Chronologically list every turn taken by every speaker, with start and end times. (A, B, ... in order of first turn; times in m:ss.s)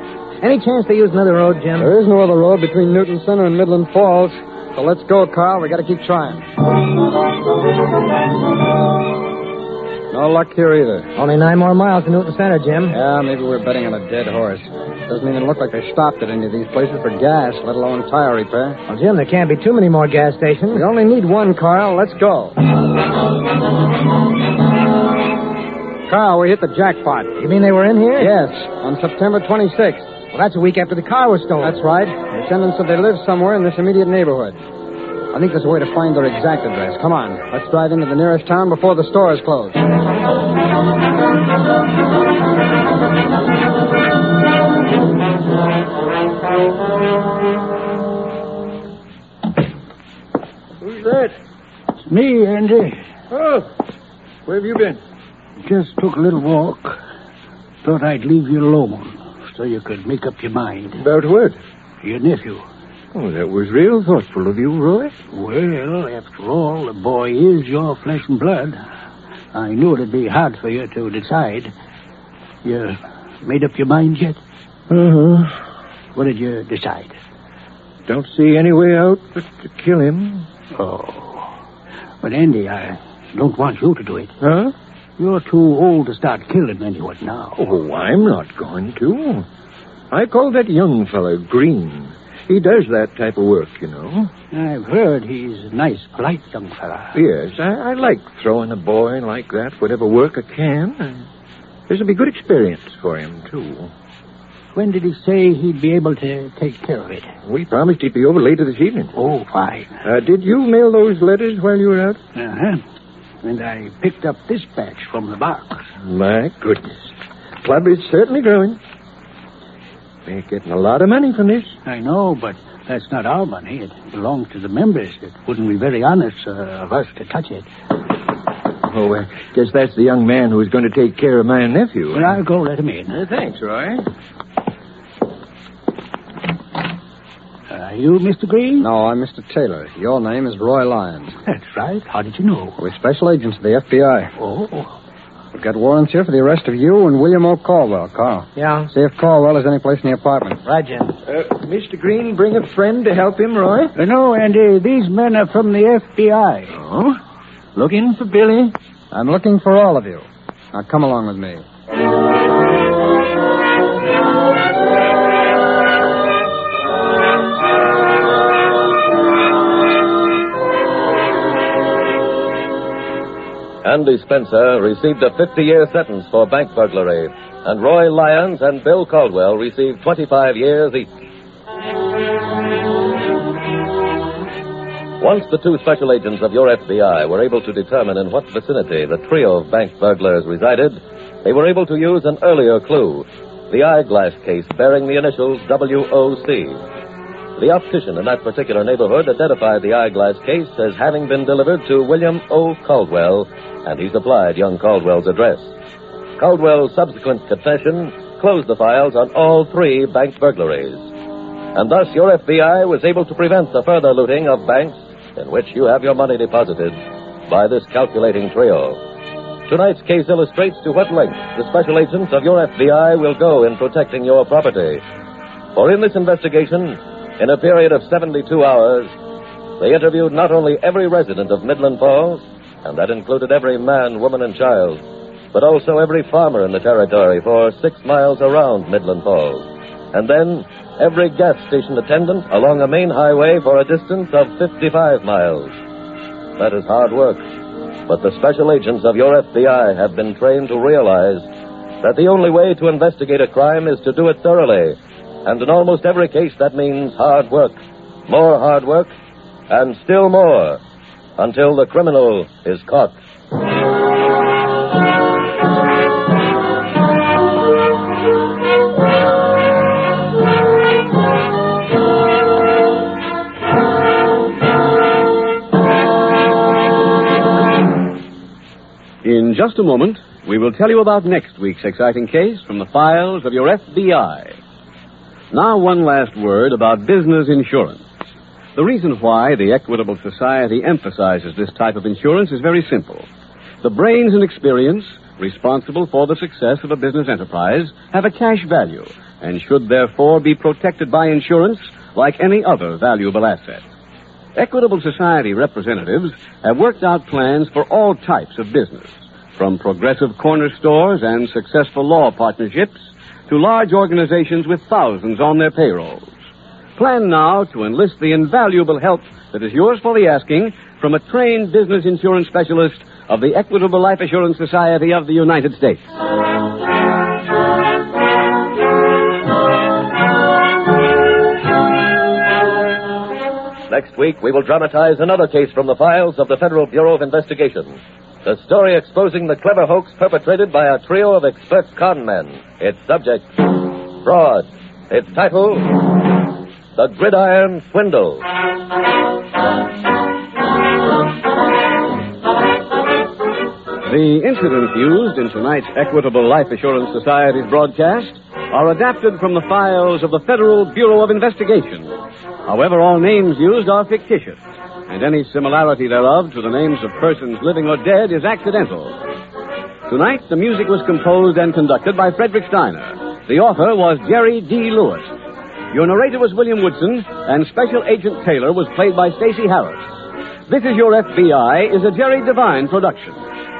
0:00.4-0:01.9 A
0:01.8-0:06.5 B
0:10.1-0:11.1 B
0:11.2-0:12.9 A
0:12.9-0:18.8 B
0:18.9-0:20.8 A
0:20.7-0:22.6 B
0:26.1-0:27.4 B
0:27.4-0:28.3 A
0:28.2-0:30.1 B
0:30.3-0:31.8 A
0:31.6-0:34.6 B
0:35.3-0:39.8 B
0:50.8-0:51.4 C
0:52.1-0:53.0 D
0:53.3-0:53.7 C
0:54.4-0:55.0 C
0:55.6-0:57.0 D
0:57.8-1:01.0 D
1:01.0-1:01.6 C
1:02.0-1:02.6 D
1:03.1-1:05.1 C
1:05.3-1:08.8 D
1:09.5-1:11.7 D
1:12.6-1:14.4 D
1:14.9-1:15.6 C
1:16.1-1:17.1 D
1:18.1-1:20.5 C
1:20.7-1:21.5 D
1:22.2-1:24.3 D
1:24.4-1:24.7 C
1:25.2-1:27.6 D
1:27.6-1:29.5 C
1:30.1-1:34.3 C
1:34.5-1:37.2 D
1:37.1-1:41.3 C
1:41.9-1:43.9 C
1:44.7-1:47.3 D
1:47.4-1:49.2 C
1:49.2-1:50.0 D
1:50.0-1:52.2 C
1:52.4-1:52.8 D
1:53.4-1:55.8 D
1:56.0-1:57.1 C
1:57.6-1:58.8 C
2:00.2-2:01.8 C
2:01.9-2:07.7 D
2:08.8-2:12.4 C
2:12.1-2:13.2 D
2:13.1-2:14.0 C
2:17.7-2:18.9 D
2:18.8-2:21.4 B
2:21.5-2:22.8 D
2:22.8-2:24.3 B
2:24.4-2:24.9 D
2:25.5-2:30.6 B
2:28.6-2:28.9 A
2:30.6-2:31.2 A
2:31.3-2:33.9 C
2:34.0-2:36.8 D
2:36.7-2:37.2 C
2:37.8-2:38.7 C
2:39.1-2:41.6 B
2:53.8-3:01.1 E
3:05.2-3:16.8 E
3:17.6-3:25.7 E
3:26.4-3:31.1 E
3:31.7-3:39.0 E
3:39.7-3:45.0 E
3:45.8-3:49.1 E
3:49.8-3:55.0 E
3:55.5-4:05.8 E
4:06.6-4:07.4 E
4:08.1-4:11.5 E
4:12.0-4:19.1 E
4:19.7-4:20.8 E
4:21.4-4:23.2 E
4:39.2-4:44.6 F
4:45.5-4:48.0 F
4:48.7-4:53.3 F
4:53.8-5:03.8 F
5:04.5-5:13.0 F
5:13.5-5:16.3 F
5:17.0-5:26.2 F
5:33.9-5:46.0 E
5:47.0-5:48.4 E
5:54.0-6:02.1 F
6:02.6-6:09.2 F
6:10.1-6:15.3 F
6:15.9-6:20.1 F
6:20.7-6:23.4 F